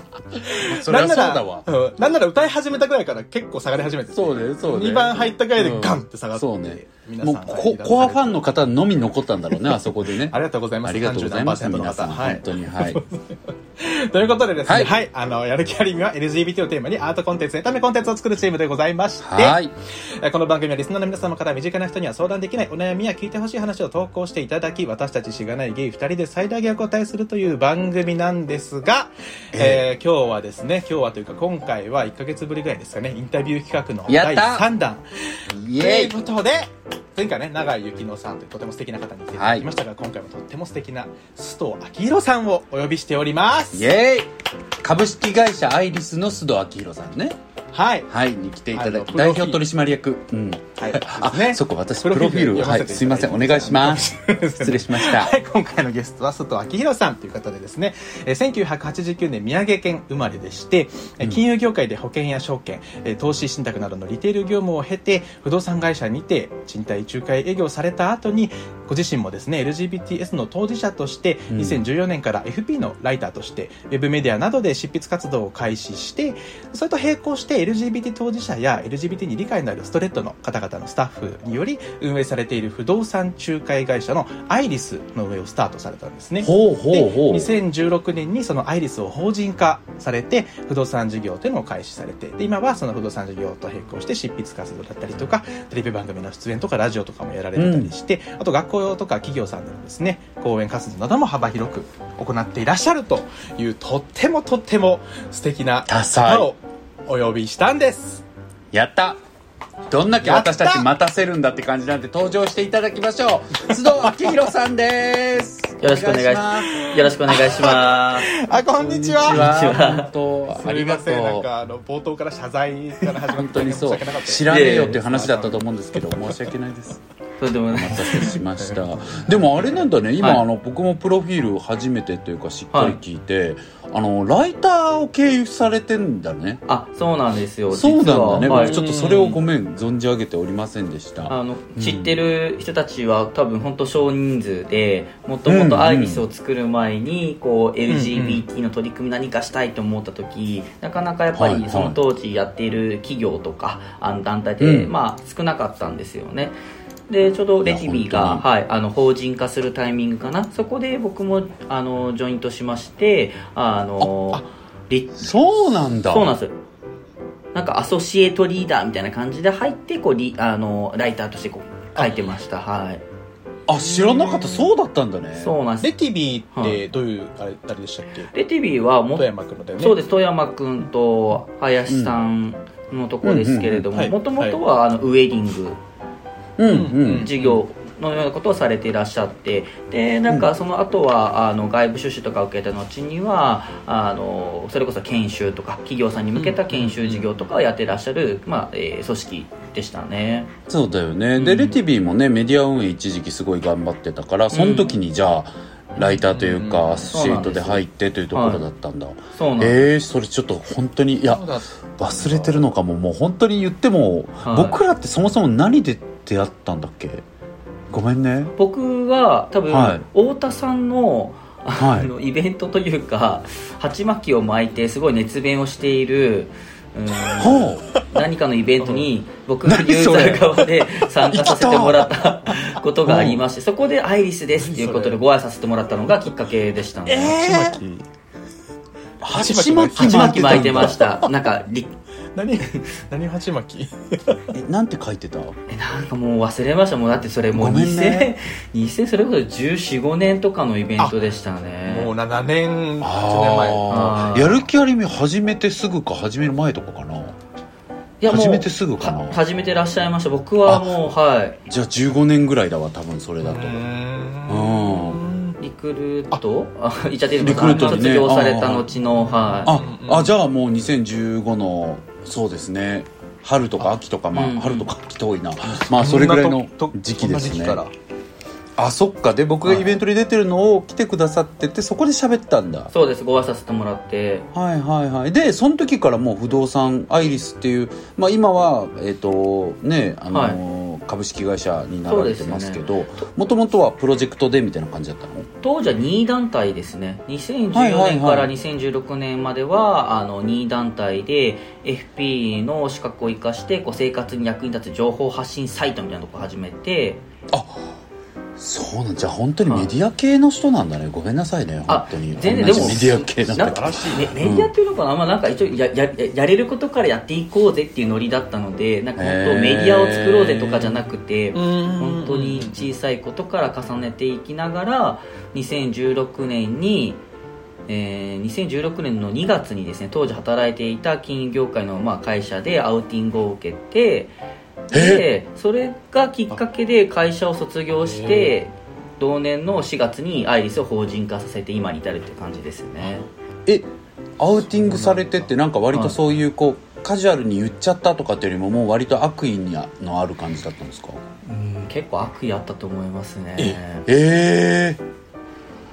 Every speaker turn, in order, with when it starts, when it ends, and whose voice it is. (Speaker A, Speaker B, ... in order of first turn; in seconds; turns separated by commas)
Speaker A: 0.3-8.4, Speaker B: 0.6-1.6, Speaker B: 4.1-13.0, Speaker A: 9.5-13.2, Speaker A: 13.8-43.9, Speaker B: 14.6-14.9, Speaker B: 19.2-19.7, Speaker B: 29.5-29.8, Speaker B: 34.1-34.7, Speaker B: 35.5-36.1, Speaker B: 39.3-39.7, Speaker B: 43.7-44.3, Speaker B: 44.8-47.4, Speaker A: 47.7-48.1, Speaker B: 48.1-55.3, Speaker A: 48.7-49.6, Speaker A: 50.8-108.2, Speaker B: 71.5-71.8, Speaker B: 86.4-87.5, Speaker B: 97.5-97.9, Speaker B: 105.9-106.5, Speaker B: 108.7-109.2, Speaker B: 109.9-116.8, Speaker A: 110.2-110.8, Speaker C: 115.8-118.3, Speaker A: 116.7-119.5, Speaker B: 118.7-121.5, Speaker C: 119.2-120.1, Speaker A: 120.5-125.6, Speaker B: 123.3-127.0, Speaker C: 124.5-125.0, Speaker C: 127.4-128.3, Speaker B: 127.7-136.6, Speaker A: 128.1-129.8, Speaker C: 130.2-130.4, Speaker C: 132.7-133.0, Speaker C: 136.7-139.4, Speaker B: 137.7-142.2, Speaker A: 138.4-138.9, Speaker C: 141.3-156.5, Speaker B: 145.5-146.2, Speaker A: 147.9-148.4, Speaker B: 151.3-152.0, Speaker B: 154.6-154.9, Speaker C: 157.1-166.6, Speaker B: 157.6-158.4, Speaker B: 165.2-166.3, Speaker C: 167.5-173.0, Speaker A: 171.9-172.2, Speaker B: 173.7-175.5, Speaker A: 173.7-174.7, Speaker C: 175.4-175.9, Speaker A: 175.8-178.3, Speaker C: 176.5-176.8, Speaker C: 178.3-179.2, Speaker A: 179.2-179.9, Speaker C: 179.8-185.8, Speaker B: 181.9-182.2, Speaker B: 183.2-183.9, Speaker A: 183.9-184.6, Speaker B: 186.6-187.3, Speaker A: 186.7-187.6, Speaker C: 187.1-200.5, Speaker A: 196.3-197.2, Speaker B: 200.7-217.2, Speaker C: 201.3-201.8, Speaker C: 204.5-205.0, Speaker A: 206.0-207.1, Speaker C: 207.1-208.6, Speaker C: 209.3-209.8, Speaker A: 211.2-212.6, Speaker C: 214.4-214.8, Speaker B: 217.9-218.5, Speaker C: 218.6-237.5, Speaker B: 219.7-220.0, Speaker B: 221.8-222.1, Speaker B: 227.4-227.8, Speaker B: 229.6-230.6, Speaker B: 231.3-232.1, Speaker B: 233.1-233.4, Speaker A: 234.6-235.2, Speaker A: 237.1-238.1, Speaker B: 239.2-241.0, Speaker A: 239.2-241.3, Speaker C: 240.0-241.9, Speaker A: 242.3-244.4, Speaker B: 244.5-245.6, Speaker C: 245.7-252.1, Speaker B: 247.5-248.3, Speaker A: 251.0-251.3, Speaker A: 251.8-254.2, Speaker B: 253.0-257.4, Speaker C: 253.9-254.7, Speaker C: 258.2-261.6, Speaker B: 258.3-259.4, Speaker B: 260.6-261.1, Speaker B: 261.7-263.8, Speaker A: 263.4-265.6, Speaker B: 264.5-265.2, Speaker C: 265.6-269.8, Speaker B: 267.4-268.9, Speaker A: 267.5-268.1, Speaker A: 269.3-270.3, Speaker B: 269.6-277.8, Speaker C: 274.3-274.9, Speaker A: 275.6-277.9, Speaker B: 278.8-282.9, Speaker A: 279.6-279.9, Speaker C: 282.9-284.5, Speaker B: 284.5-295.5, Speaker C: 290.3-290.6, Speaker C: 292.1-293.3, Speaker C: 295.6-307.2, Speaker B: 297.7-298.5, Speaker B: 307.5-307.9, Speaker B: 308.6-314.7, Speaker C: 309.6-309.9, Speaker C: 311.9-327.2, Speaker A: 312.5-314.4, Speaker B: 319.2-321.0, Speaker A: 321.5-322.9, Speaker C: 327.9-334.3, Speaker C: 334.9-343.3, Speaker B: 334.9-335.2, Speaker A: 338.0-338.6, Speaker B: 344.4-351.2, Speaker A: 344.6-345.5, Speaker C: 351.4-354.1, Speaker B: 354.1-355.0